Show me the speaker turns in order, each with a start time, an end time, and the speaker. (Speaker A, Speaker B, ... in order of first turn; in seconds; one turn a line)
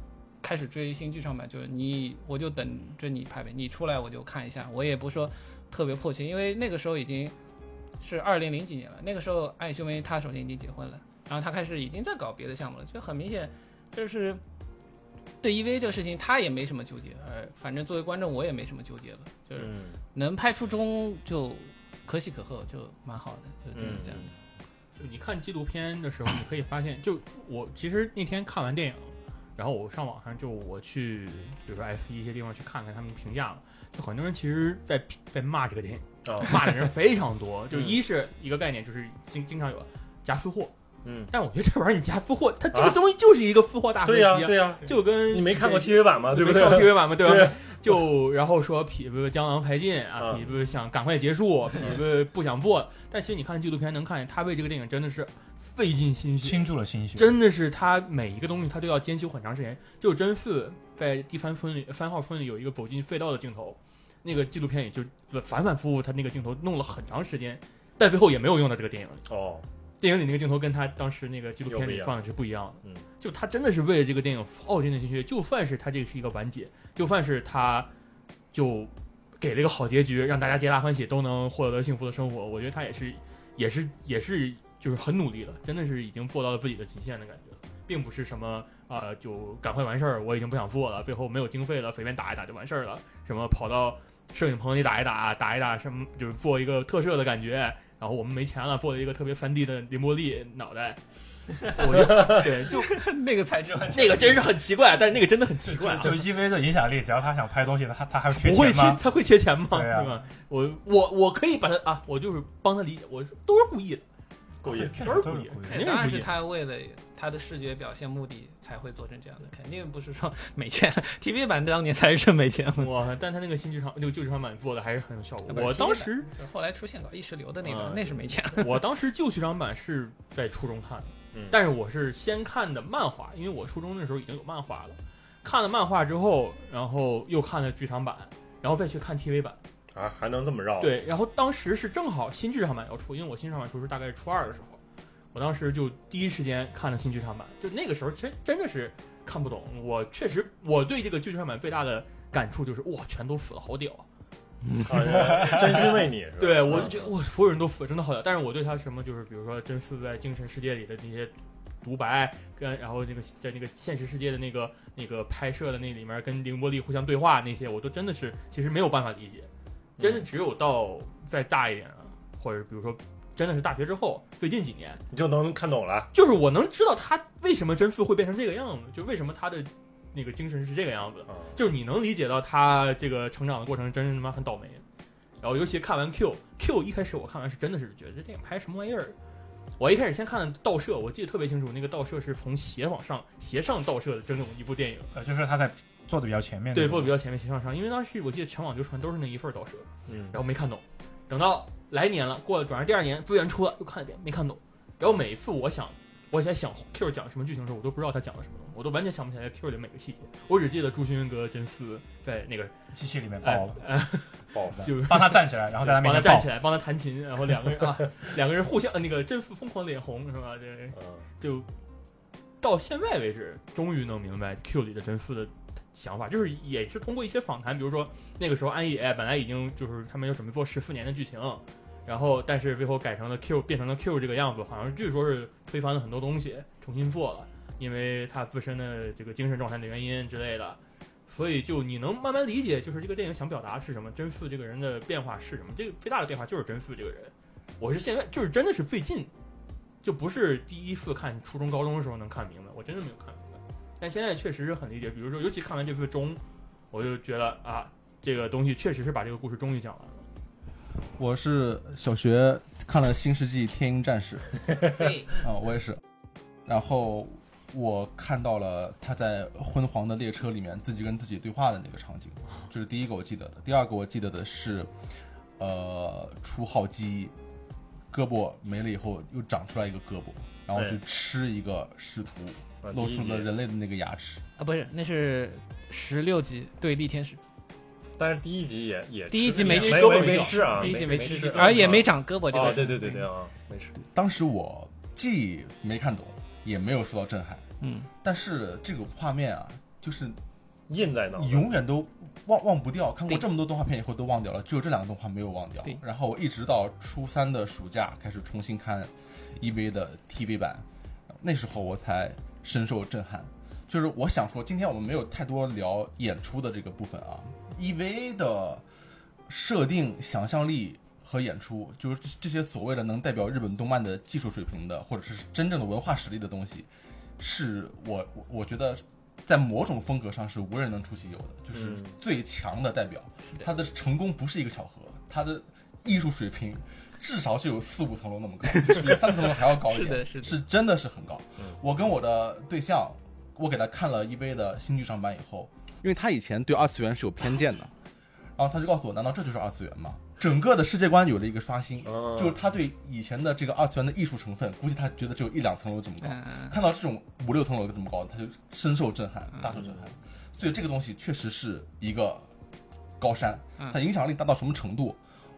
Speaker A: 0.4-7.4
Speaker A: 8.0-14.4
Speaker A: 15.4-24.3
Speaker B: 19.6-20.0
Speaker B: 23.8-24.3
Speaker C: 25.0-40.7
Speaker B: 36.2-36.9
Speaker B: 37.7-38.0
Speaker B: 41.0-41.3
Speaker C: 41.3-69.3
Speaker B: 42.7-43.0
Speaker B: 44.0-47.6
Speaker B: 50.2-50.5
Speaker D: 56.4-57.4
Speaker B: 69.3-69.7
Speaker C: 70.0-77.9
Speaker B: 71.7-72.2
Speaker C: 78.5-101.0
Speaker C: 101.6-103.1
Speaker A: 102.1-104.5
Speaker C: 103.9-106.3
Speaker D: 105.8-109.0
Speaker C: 108.3-114.0
Speaker D: 109.7-110.2
Speaker B: 114.6-115.0
Speaker D: 114.7-115.9
Speaker C: 114.7-116.3
Speaker A: 115.7-122.9
Speaker C: 122.8-126.3
Speaker A: 125.5-128.8
Speaker C: 127.7-139.6
Speaker B: 131.3-131.6
Speaker B: 139.9-141.0
Speaker C: 140.8-144.8
Speaker C: 145.3-154.1
Speaker B: 154.8-157.1
Speaker C: 155.3-175.0
Speaker B: 170.0-170.3
Speaker B: 175.1-176.1
Speaker C: 176.1-184.8
Speaker B: 181.3-181.6
Speaker C: 185.4-189.2
Speaker C: 189.8-195.1
Speaker D: 195.1-197.2
Speaker C: 196.7-212.8
Speaker B: 200.1-200.4
Speaker D: 212.9-213.8
Speaker C: 213.4-221.7
Speaker B: 214.5-214.8
Speaker D: 214.8-216.5
Speaker B: 220.9-221.2
Speaker C: 222.6-249.3
Speaker C: 250.0-260.2
Speaker E: 261.2-264.6
Speaker E: 265.3-266.0
Speaker E: 266.7-274.9
Speaker E: 275.6-277.3
Speaker E: 278.1-284.4
Speaker B: 282.8-283.5
Speaker A: 284.6-287.4
Speaker B: 288.2-293.9
Speaker A: 289.3-293.3
Speaker C: 289.5-292.0
Speaker E: 294.0-297.7
Speaker A: 297.8-298.1
Speaker E: 298.2-300.4
Speaker B: 300.9-301.7
Speaker E: 301.4-318.8
Speaker E: 319.5-326.9
Speaker E: 327.4-347.9
Speaker B: 331.7-332.1
Speaker A: 339.8-340.6
Speaker E: 348.6-362.5
Speaker B: 352.1-352.6
Speaker A: 356.2-356.8
Speaker B: 359.7-360.1
Speaker E: 363.2-365.2